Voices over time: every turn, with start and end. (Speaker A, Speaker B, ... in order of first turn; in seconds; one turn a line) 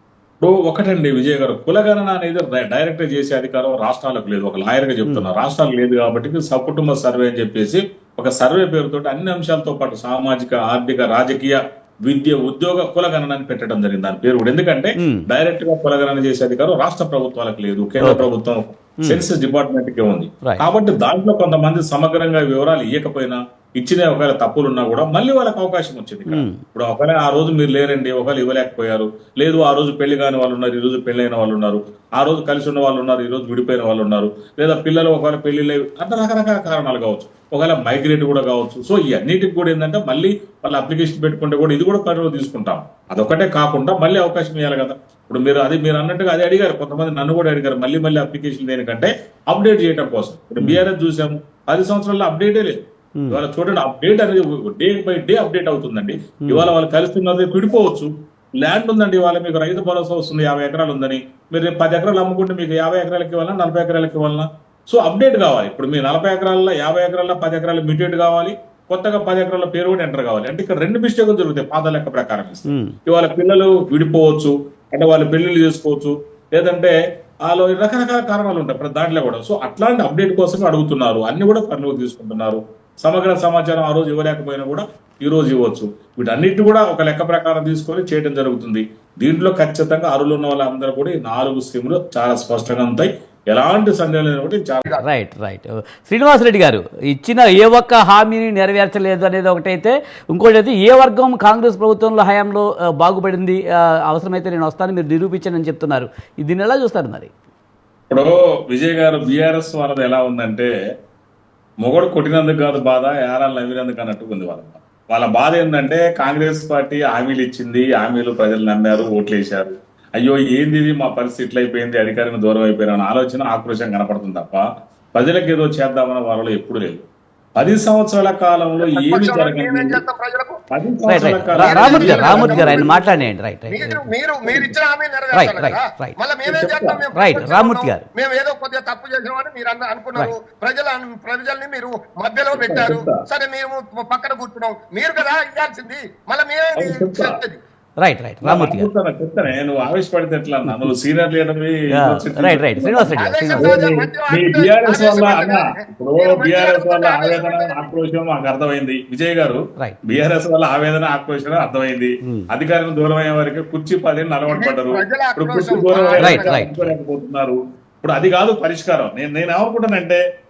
Speaker A: 0.4-52.8
Speaker B: 5.0-5.3
Speaker B: 18.0-18.3
Speaker B: 26.3-26.6
Speaker B: 50.6-50.9
Speaker A: 53.3-76.9
Speaker B: 56.5-56.7
Speaker B: 72.7-73.0
Speaker A: 77.5-94.9
Speaker B: 95.0-107.3
Speaker A: 108.1-110.7
Speaker A: 111.8-127.0
Speaker A: 127.6-130.0
Speaker C: 128.8-130.6
Speaker A: 130.7-132.9
Speaker B: 131.1-134.0
Speaker C: 131.6-147.6
Speaker A: 134.5-134.7
Speaker B: 135.3-136.2
Speaker A: 136.4-137.0
Speaker B: 137.2-138.1
Speaker A: 142.5-143.2
Speaker A: 146.8-147.3
Speaker B: 148.0-148.9
Speaker A: 148.4-170.2
Speaker B: 152.0-153.8
Speaker C: 153.2-157.9
Speaker C: 164.5-166.6
Speaker B: 166.2-166.9